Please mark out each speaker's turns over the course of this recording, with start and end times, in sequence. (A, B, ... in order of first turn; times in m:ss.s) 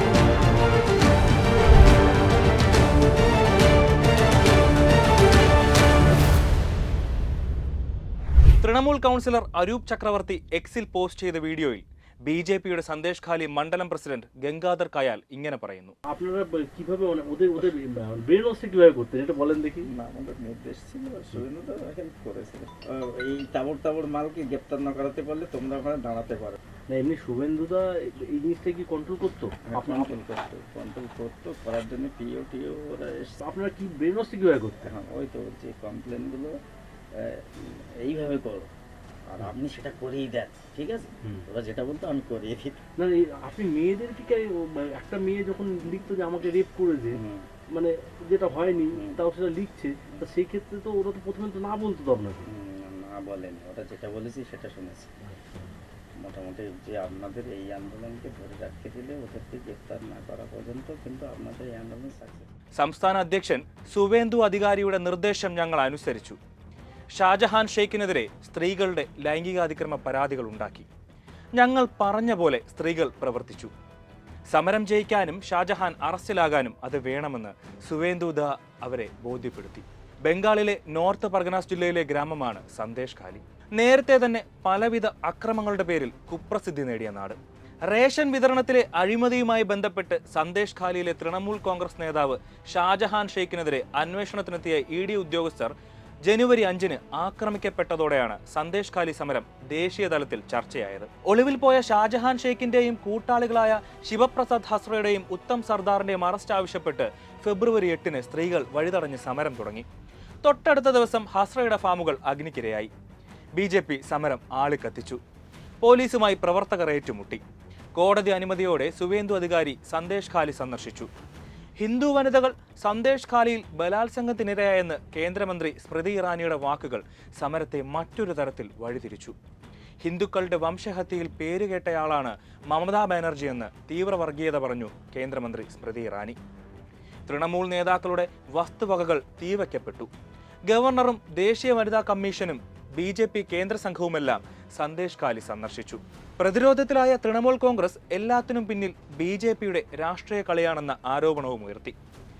0:08.6-0:16.0 A
0:16.1-0:19.9 B
0:19.8-0:26.6 C
0:26.9-0:30.1 B
0:29.7-0:33.4 C
0:33.4-0:34.9 B
0:34.8-0:36.5 C
0:37.2-0:38.7 C
0:39.3-0:42.8 C
0:43.0-0:47.2 B
0:47.1-0:47.5 C
0:47.7-0:52.5 B
0:48.9-0:49.2 C
0:52.4-0:55.1 C
0:56.2-1:02.5 C
1:02.8-1:06.4 A
1:07.2-1:10.9 A
1:11.6-1:13.7 A
1:14.5-1:35.7 A
1:36.2-1:49.9 A
1:50.4-1:52.9 A
1:53.6-1:55.2 A
1:55.8-1:57.4 A
1:58.0-2:01.1 A
2:01.8-2:09.4 A
2:10.0-2:16.4 A
2:17.3-2:20.1 A
2:20.7-2:32.0 A